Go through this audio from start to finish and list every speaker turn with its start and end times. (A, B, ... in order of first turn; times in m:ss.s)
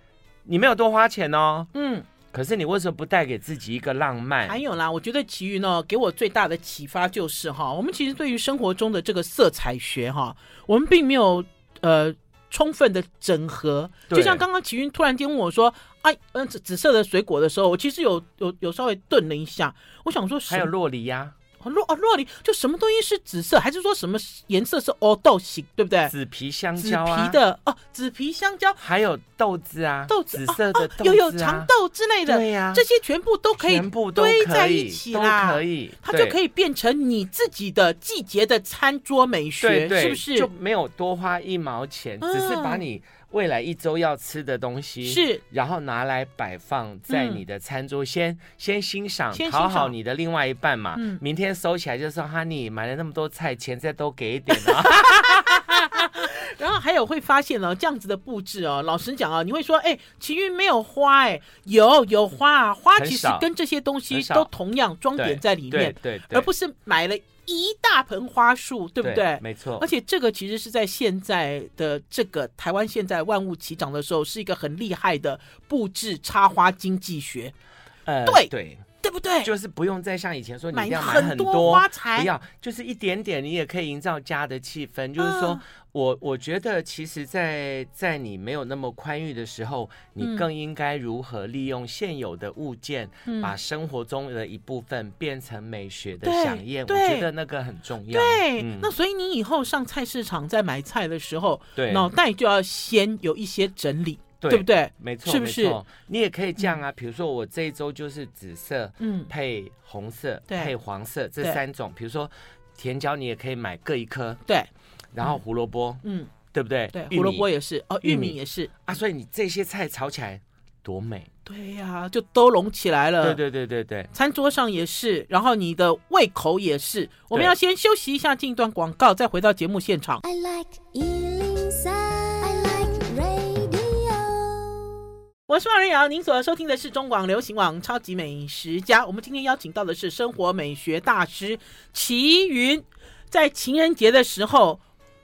0:00.4-0:01.7 A
0:01.7-0:02.0 B
0:02.3-0:04.6 A
0:04.4-0:20.7 B
0:14.1-0:14.4 A
0:20.5-0:21.3 A
0:21.6-0:26.1 B
0:26.1-0:27.4 A
0:26.8-0:28.8 B
0:28.8-0:31.7 A
0:30.1-0:40.5 B
0:32.2-0:32.8 A
0:33.6-0:36.4 A
0:39.6-0:56.3 A
0:42.2-0:42.8 B
0:45.0-0:45.4 B
0:47.1-0:47.4 B
0:49.3-0:49.9 B
0:51.0-0:51.2 B
0:54.5-1:17.5 B
1:03.0-1:03.5 A
1:04.1-1:04.5 A
1:05.2-1:06.5 A
1:09.0-1:09.8 A
1:18.0-1:18.8 A
1:18.2-1:18.5 B
1:19.0-1:19.5 B
1:19.4-1:38.9 A
1:20.7-1:22.3 B
1:25.2-1:25.6 B
1:30.2-1:30.4 B
1:33.2-1:33.5 B
1:36.2-1:37.3 B
1:38.1-1:45.8 B
1:41.8-1:42.1 A
1:44.4-1:54.4 A
1:49.0-1:49.3 B
1:55.1-1:57.4 A
1:56.0-1:56.3 B
1:56.9-1:59.0 B
1:58.0-2:01.3 A
2:01.4-2:03.4 B
2:03.2-2:04.1 A
2:04.1-2:10.2 B
2:10.2-2:15.0 C
2:15.5-2:24.8 B